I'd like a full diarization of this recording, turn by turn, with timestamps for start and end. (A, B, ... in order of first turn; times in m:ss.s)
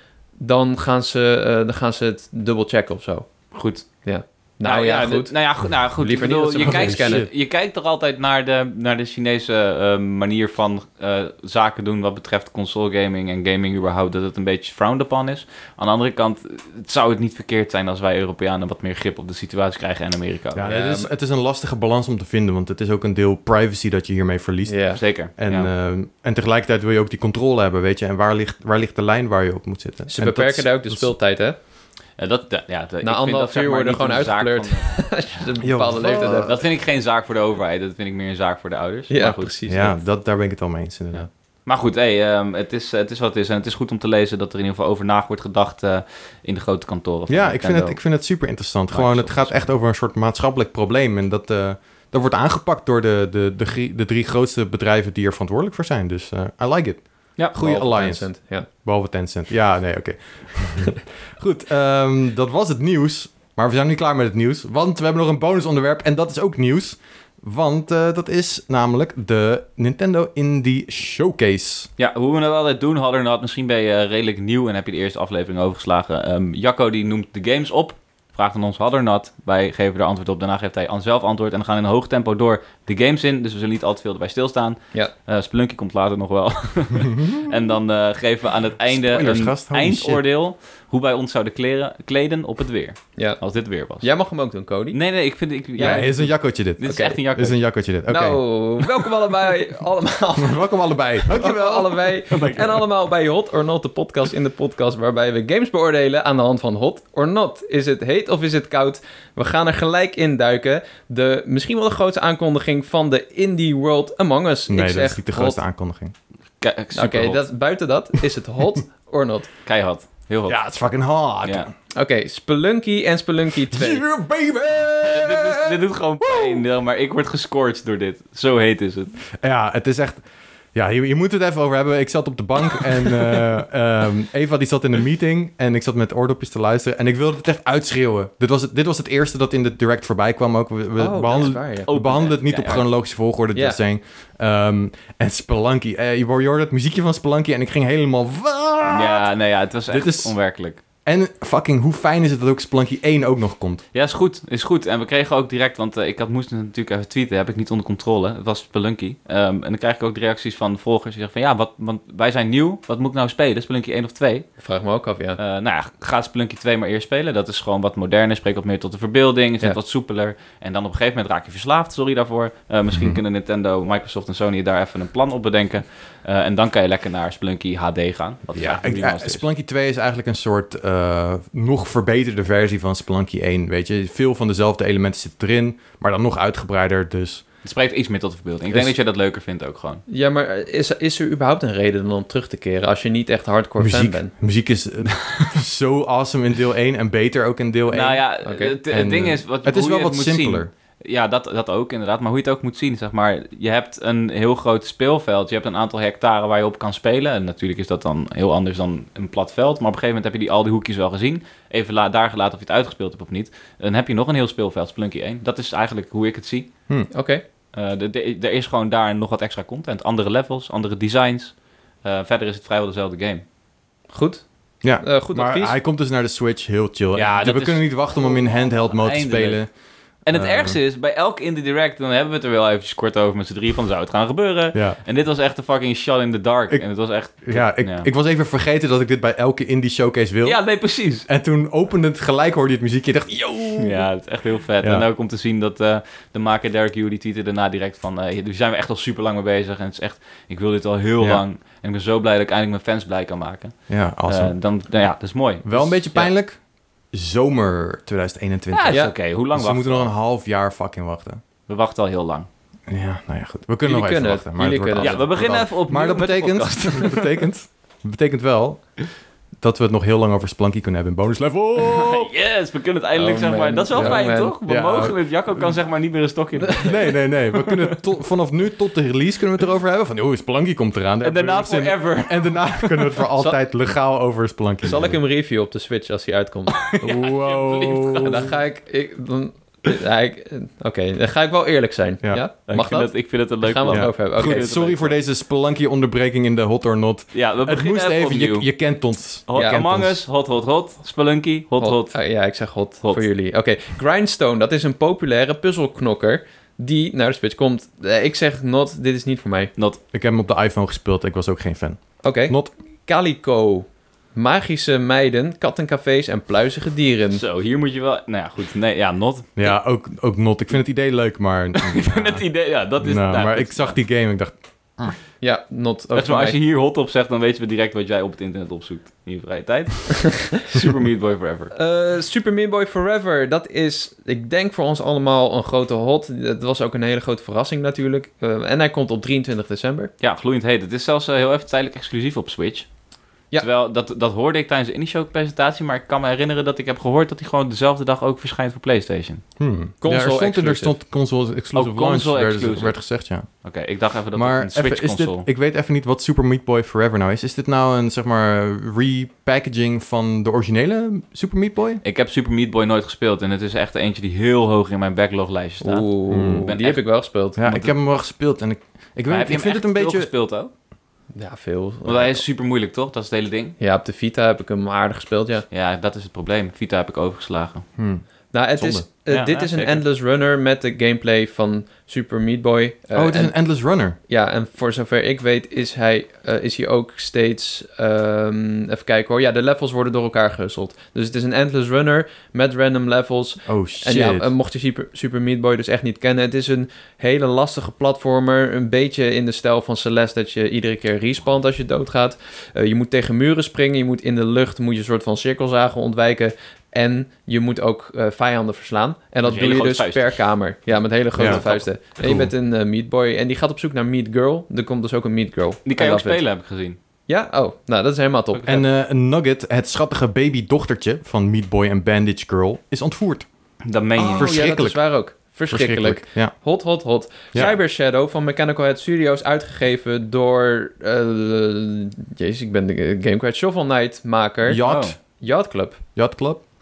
0:00.4-0:07.2 A
0:03.5-0:03.9 B
0:04.6-0:20.7 B
0:06.6-0:07.3 C
0:20.5-0:31.2 C
0:20.7-0:21.1 A
0:24.7-0:25.0 A
0:25.0-0:25.7 B
0:30.1-0:31.6 A
0:32.2-0:35.4 B
0:33.0-0:36.6 A
0:35.6-0:36.5 C
0:36.1-0:39.5 B
0:39.1-0:40.0 A
0:39.7-0:41.3 C
0:41.1-0:48.0 B
0:47.3-1:11.9 C
0:48.9-0:49.5 B
0:57.6-0:58.7 A
1:12.0-1:34.1 B
1:28.9-1:30.2 C
1:34.0-1:35.0 A
1:34.9-1:37.6 B
1:35.8-1:36.1 A
1:35.8-1:38.4 C
1:36.8-1:37.2 A
1:38.1-1:55.6 A
1:40.4-1:42.2 C
1:42.3-1:42.8 B
1:54.7-1:56.1 C
1:56.6-1:57.4 B
1:56.9-1:59.5 A
1:59.6-2:00.6 B
2:00.5-2:01.7 C
2:01.9-2:04.0 A
2:03.6-2:06.6 C
2:05.0-2:09.2 B
2:09.4-2:10.2 C
2:10.7-2:29.3 C
2:21.0-2:21.9 A
2:21.9-2:22.9 B
2:28.9-2:30.8 B
2:29.9-2:30.3 C
2:31.0-2:33.8 C
2:33.9-2:44.5 B
2:44.6-2:45.4 A
2:45.4-2:59.4 B
2:52.9-2:53.2 C
2:58.6-3:07.4 C
3:07.6-3:10.0 B
3:10.1-3:14.3 A
3:13.8-3:18.2 C
3:17.9-3:36.7 B
3:18.4-3:18.8 A
3:18.9-3:20.7 C
3:37.1-3:37.4 A
3:37.7-3:43.4 B
3:44.1-3:45.8 A
3:44.8-3:49.7 C
3:47.2-3:49.7 B
3:50.2-3:58.1 B
3:50.3-3:50.8 C
3:54.7-3:55.0 C
3:57.4-4:04.1 C
4:00.4-4:01.3 B
4:03.8-4:13.8 B
4:13.9-4:14.6 C
4:14.3-4:16.3 B
4:15.6-4:16.6 C
4:17.1-4:21.4 C
4:18.7-4:20.1 B
4:21.7-4:22.5 B
4:22.9-4:28.9 C
4:23.8-4:25.2 A
4:25.0-4:27.4 B
4:29.6-4:32.3 C
4:31.8-4:38.0 B
4:33.2-4:34.6 A
4:34.0-4:35.8 C
4:36.8-4:45.2 C
4:41.2-4:43.2 B
4:44.8-4:47.0 A
4:46.8-4:48.6 B
4:47.0-4:48.5 C
4:48.2-4:54.7 A
4:52.7-4:55.2 B
4:53.9-5:00.2 C
4:57.3-4:58.7 B
4:59.5-5:02.2 B
4:59.5-4:59.8 A
5:01.8-5:09.7 A
5:10.1-5:12.7 C
5:12.2-5:17.4 A
5:17.3-5:19.7 B
5:19.6-5:22.4 C
5:21.8-5:24.0 B
5:23.0-5:25.2 C
5:25.4-5:26.6 A
5:26.2-5:31.7 B
5:31.7-5:40.1 A
5:40.2-5:42.9 B
5:43.6-5:49.4 B
5:49.6-5:53.5 C
5:50.0-5:50.9 A
5:51.8-5:53.0 B
5:53.6-5:55.5 B
5:54.4-6:02.0 C
6:02.0-6:07.0 B
6:05.8-6:07.6 A
6:06.3-6:06.7 C
6:07.6-6:10.3 C
6:07.7-6:07.9 B
6:09.3-6:10.7 B
6:11.4-6:12.4 A
6:12.1-6:13.8 B
6:13.8-6:15.6 A
6:15.7-6:17.8 B
6:18.0-6:18.2 C
6:18.5-6:23.5 A
6:18.8-6:19.1 C
6:19.3-6:20.0 B
6:23.2-6:24.2 C
6:24.3-6:56.4 A
6:33.7-6:34.5 C
6:49.5-6:50.4 B
6:51.4-6:51.6 C
6:51.4-6:51.9 B
6:52.2-6:52.5 C
6:55.9-6:57.0 B
6:57.3-6:58.8 A
6:58.6-7:03.5 C
7:03.8-7:04.5 B
7:04.2-7:05.0 C
7:04.2-7:16.0 A
7:05.7-7:06.5 C
7:14.7-7:15.2 C
7:14.8-7:15.2 B
7:16.2-7:16.6 C